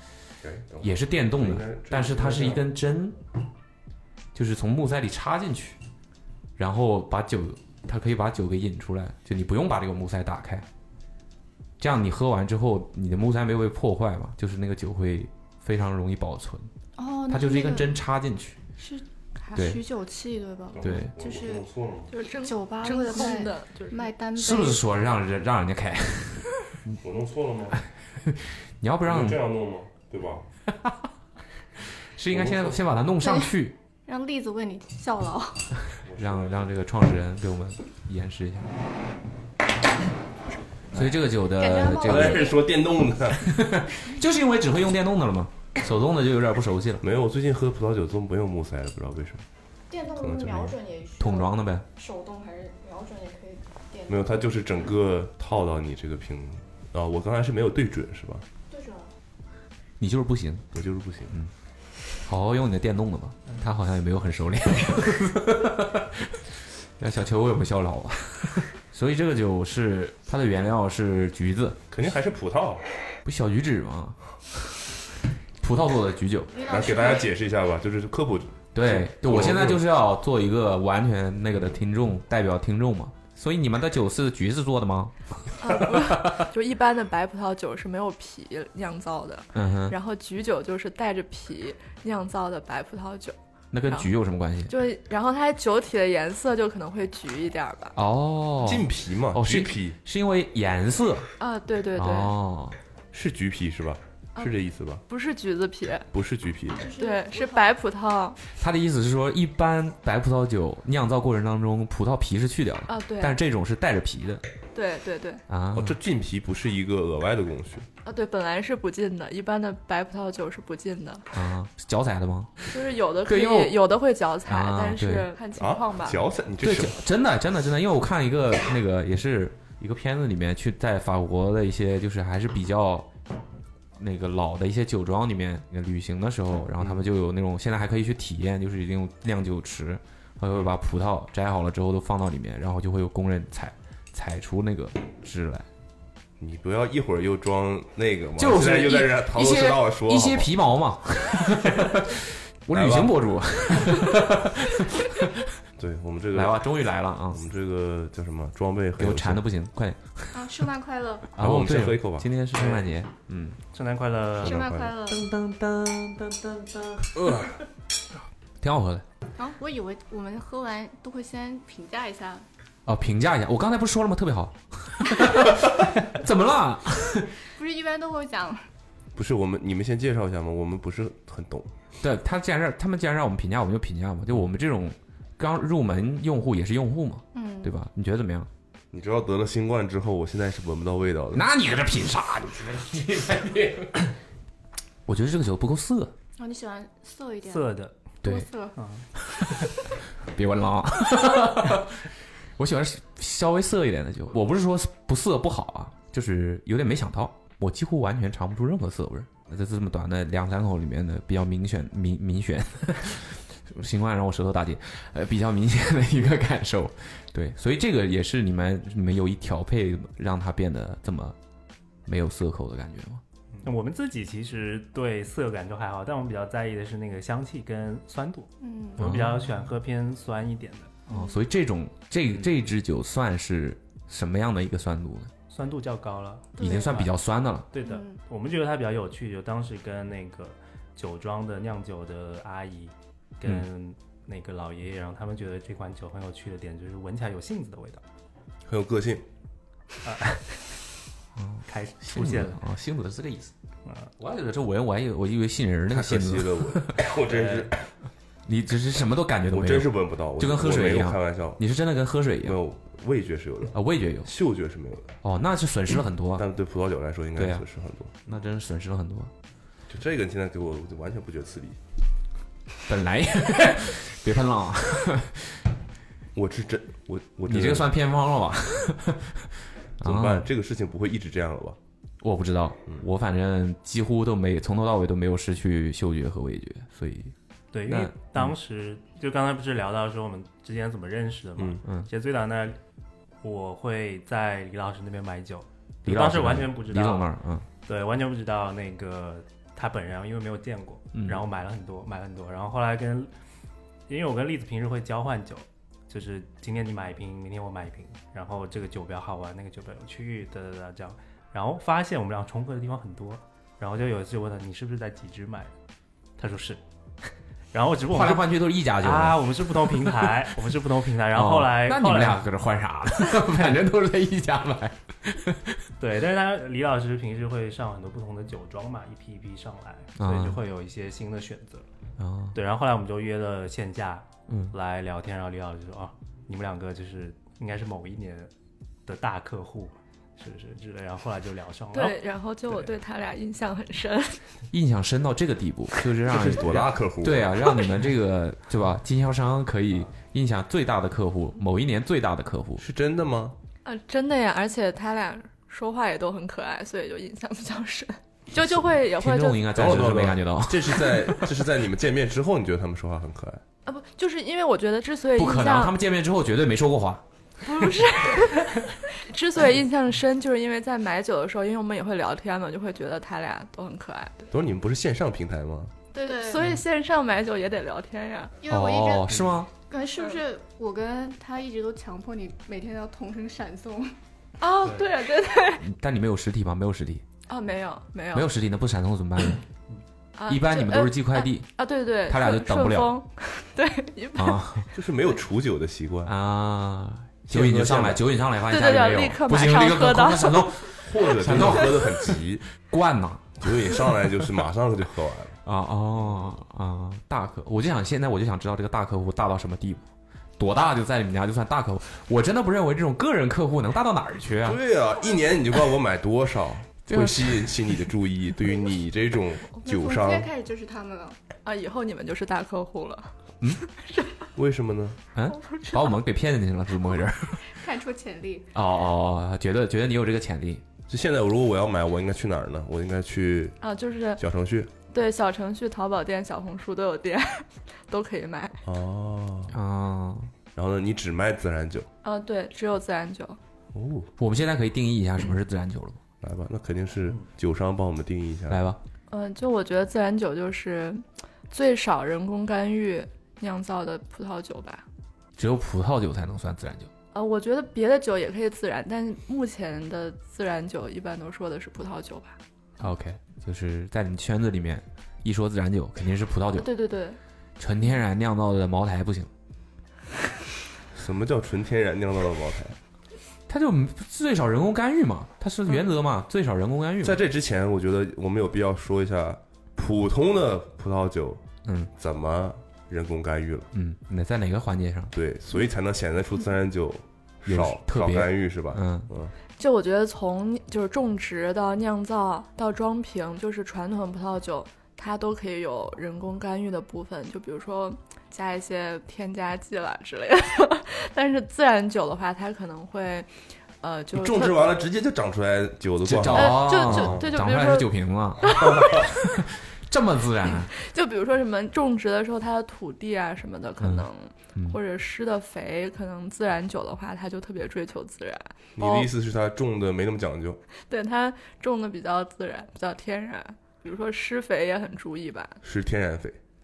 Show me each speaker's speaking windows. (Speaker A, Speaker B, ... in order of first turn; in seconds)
Speaker A: 0.4-2.6, 20.8-22.1, 27.0-27.8, 29.1-30.5, 32.3-32.8, 36.0-36.7, 42.0-43.5, 47.0-49.4, 50.2-50.8, 54.1-58.5, 60.7-61.4, 71.9-72.8, 76.6-79.8, 98.6-100.0, 103.1-105.0, 106.1-106.9, 115.7-117.9, 125.6-127.0, 136.8-137.1, 146.4-150.5, 152.7-153.2, 155.8-156.6, 157.3-159.4, 161.4-162.3, 164.4-164.9, 167.2-167.6, 179.2-181.7, 188.9-191.4, 248.7-249.2, 255.9-257.8, 259.5-261.6, 262.4-265.1, 266.4-268.1, 269.9-271.8, 276.4-277.9, 280.0-281.8, 346.2-347.7, 352.8-353.6, 359.7-363.6, 374.5-375.9, 394.9-396.3, 397.5-398.2, 401.0-402.6, 403.6-405.6, 414.6-420.5, 424.6-425.2, 431.1-433.8, 434.4-434.9, 438.9-439.8, 440.7-442.1, 443.9-444.3, 446.4-448.8, 471.1-473.0, 477.2-481.6, 482.2-483.9, 485.3-489.5, 504.3-507.5, 508.8-509.2, 519.0-520.8, 525.8-526.6
Speaker B: 0.8-3.2, 4.3-5.8, 6.6-10.7, 11.8-16.7, 17.3-18.6, 19.6-19.8, 20.8-21.1, 24.4-26.9, 28.2-29.4, 30.7-31.1, 32.0-33.8, 36.1-38.7, 40.9-42.6, 43.4-47.0, 51.2-51.9, 60.0-60.7, 62.2-71.8, 73.2-74.2, 75.6-76.6, 78.7-86.5, 89.5-90.0, 93.7-94.7, 98.0-101.3, 102.0-102.8, 108.6-114.4, 115.5-116.0, 121.3-122.7, 123.3-123.8, 124.5-125.3, 126.6-133.1, 134.0-145.7, 148.4-155.5, 156.3-157.4, 159.0-160.6, 161.4-163.6, 165.1-167.6, 168.6-169.1, 172.9-177.3, 182.0-188.5, 191.3-194.1, 195.1-196.1, 199.2-199.7, 200.2-221.4, 222.1-223.2, 229.0-229.5, 231.1-235.3, 236.6-237.7, 251.4-253.5, 254.2-257.1, 258.5-262.6, 263.7-264.3, 265.2-266.5, 267.4-267.6, 268.2-269.3, 272.9-275.6, 277.5-280.5, 282.2-287.3, 287.9-288.5, 296.1-297.7, 301.1-301.4, 318.1-320.4, 321.3-325.9, 330.2-330.6, 332.2-332.6, 334.5-334.7, 344.7-352.9, 358.6-361.5, 365.3-367.2, 378.7-379.7, 385.8-387.2, 388.3-389.6, 390.5-391.7, 392.2-393.1, 394.4-394.9, 396.2-404.4, 405.6-410.1, 410.6-414.8, 417.1-417.9, 425.4-427.7, 428.7-430.8, 439.7-440.5, 444.4-446.2, 448.7-449.0, 455.6-457.1, 463.0-466.9, 467.8-469.5, 473.7-477.4, 481.8-482.1, 483.9-485.4, 487.7-489.3, 506.2-510.9, 514.0-515.0
Speaker C: 17.0-18.0, 18.8-21.7, 22.4-24.8, 33.2-33.5, 34.0-35.7, 41.5-42.7, 49.9-54.5, 58.7-59.1, 76.5-77.3, 106.8-107.8, 160.3-161.3, 164.4-165.2, 169.4-172.4, 177.6-178.7, 187.3-187.7, 196.4-197.7, 198.2-198.8, 228.6-229.2, 236.6-237.0, 237.8-238.2, 376.1-376.6, 378.6-384.1, 419.8-421.4, 427.7-428.7
Speaker D: 22.1-24.1, 85.6-94.1, 94.7-98.0, 101.4-102.3, 105.1-106.1, 107.0-108.4, 112.9-113.4, 114.7-115.4, 118.0-121.3, 122.7-126.2, 341.9-344.4, 353.9-359.8, 363.9-365.9, 367.6-374.5, 376.1-378.6, 384.6-385.9, 387.5-388.5, 390.4-394.9, 398.7-401.0, 421.6-424.5, 425.5-426.1, 433.8-434.4, 435.1-438.8, 442.2-443.6, 449.3-455.0, 457.3-462.6, 466.8-467.4, 489.8-504.9, 506.5-509.4, 510.8-519.3, 521.1-525.8
Speaker E: 162.6-162.9, 163.7-164.6, 197.5-198.0, 198.8-199.1, 223.6-231.0, 235.5-237.1, 237.7-248.0, 250.0-250.8, 251.7-252.6, 257.3-257.7, 287.7-292.8, 293.4-297.3, 297.9-303.3, 304.1-315.7, 316.4-322.4, 326.0-331.9, 332.6-338.5, 339.1-342.9